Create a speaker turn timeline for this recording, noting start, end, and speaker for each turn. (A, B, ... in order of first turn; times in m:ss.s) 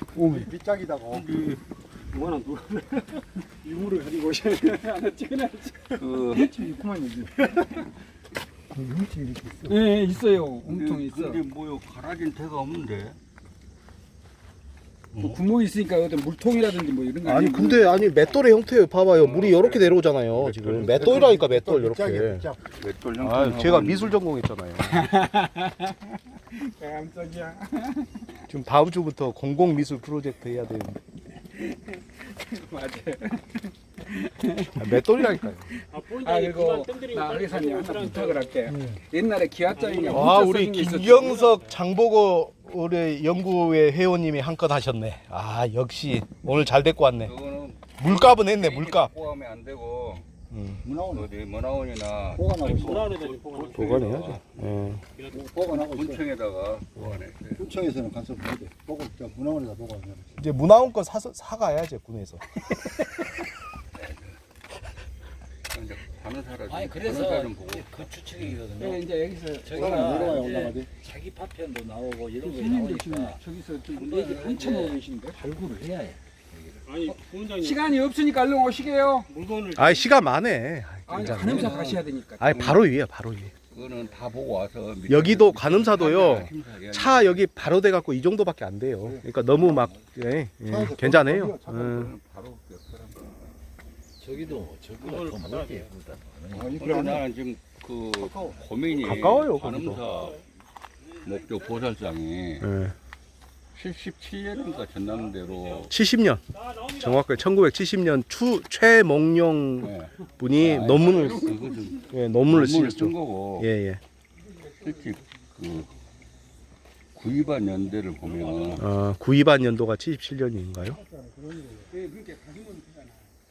0:00.2-0:00.5 A
0:00.3-0:01.3 B
0:01.1-0:01.6 C
0:02.1-0:02.9 D
0:03.0-0:07.8 A
0:06.0-0:06.6 C
0:08.7-0:09.6 B
0:09.6-0:11.4 A
0:10.6-0:13.2 C
0:15.1-0:15.4 C
0:15.2-0:18.0 A
0:17.2-0:22.5 E
0:19.1-0:21.3 C
0:20.8-0:22.6 B
0:22.7-0:24.2 C
0:23.2-0:25.1 E
0:24.9-0:28.3 A
0:28.5-0:31.0 E
0:31.6-0:41.6 A
0:34.8-0:35.6 E
0:35.9-0:38.5 D
0:39.8-0:40.1 D
0:40.1-0:47.3 E
0:47.2-0:50.3 C
0:48.0-0:49.1 E
0:50.5-0:50.8 E
0:50.8-0:51.3 B
0:51.0-0:54.6 C
0:52.3-0:53.2 B
0:52.8-0:54.3 D
0:53.7-0:55.0 E
0:55.3-0:56.2 B
0:55.7-0:57.8 C
0:57.6-1:00.3 B
1:00.4-1:02.6 E
1:04.0-1:04.4 C
1:05.7-1:08.6 C
1:06.6-1:13.4 F
1:08.8-1:10.8 A
1:09.7-1:10.9 B
1:12.4-1:15.4 A
1:14.0-1:16.2 F
1:16.9-1:17.8 D
1:17.0-1:19.3 A
1:19.3-1:20.0 D
1:19.7-1:23.5 E
1:21.1-1:22.8 A
1:21.2-1:22.0 C
1:23.7-1:27.5 C
1:25.1-1:32.1 E
1:29.3-1:30.0 C
1:30.7-1:31.9 B
1:31.7-1:33.4 C
1:34.2-1:36.7 F
1:35.1-1:35.8 D
1:36.5-1:37.2 B
1:36.5-1:40.5 C
1:38.2-1:38.6 B
1:39.0-1:40.0 E
1:41.2-1:42.7 C
1:42.6-1:43.0 E
1:43.7-1:45.9 C
1:45.9-1:51.6 E
1:49.8-1:53.7 C
1:52.1-1:54.0 E
1:54.7-1:55.9 C
1:57.2-1:58.8 C
1:58.8-2:01.0 E
2:01.6-2:03.1 A